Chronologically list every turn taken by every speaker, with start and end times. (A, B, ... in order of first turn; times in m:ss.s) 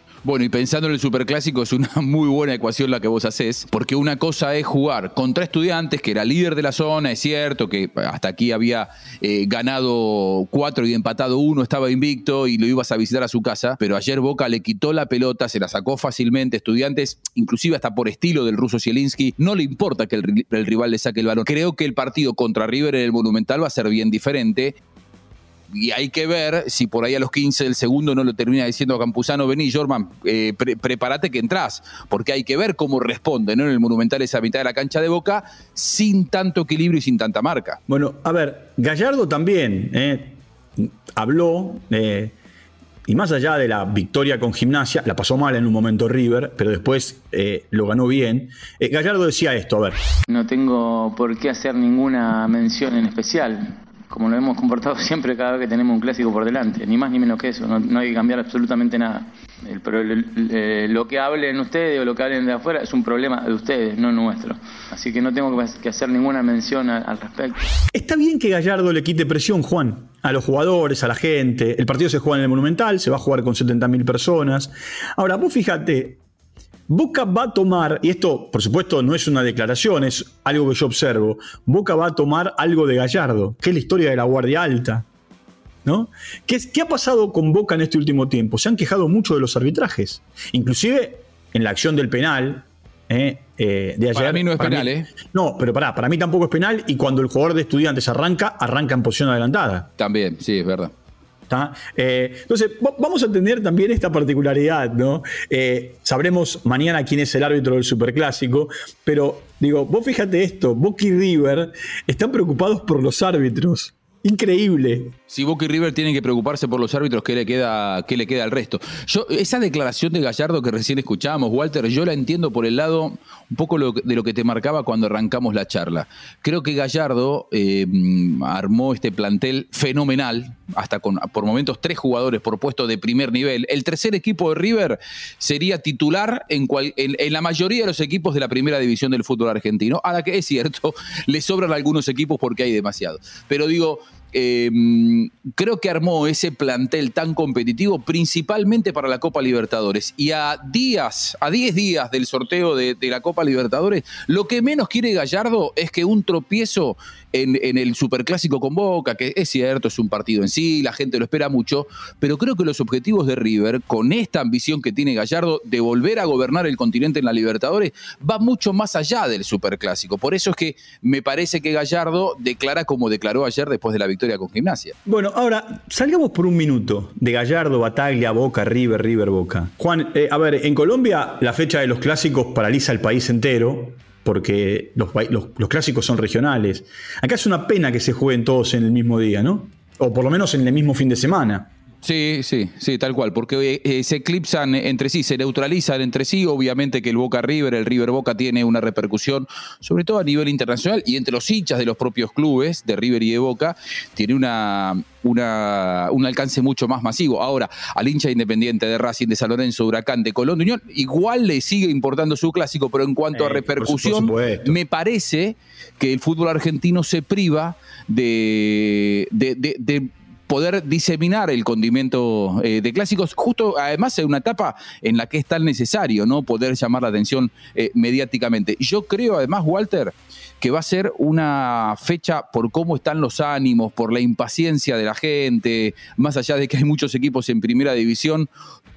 0:00.2-0:24.8 A
0:25.7-0:37.8 A
0:37.9-0:42.3 B
0:43.1-0:50.0 B
0:50.3-1:07.6 C
1:07.9-1:16.2 B
1:16.9-1:25.0 B
1:25.8-1:39.9 B
1:34.1-1:35.1 A
1:40.0-1:40.9 A
1:41.5-1:55.1 B
1:55.3-2:54.9 A
2:55.0-3:11.7 B
3:12.0-3:58.5 A
3:33.3-3:34.8 B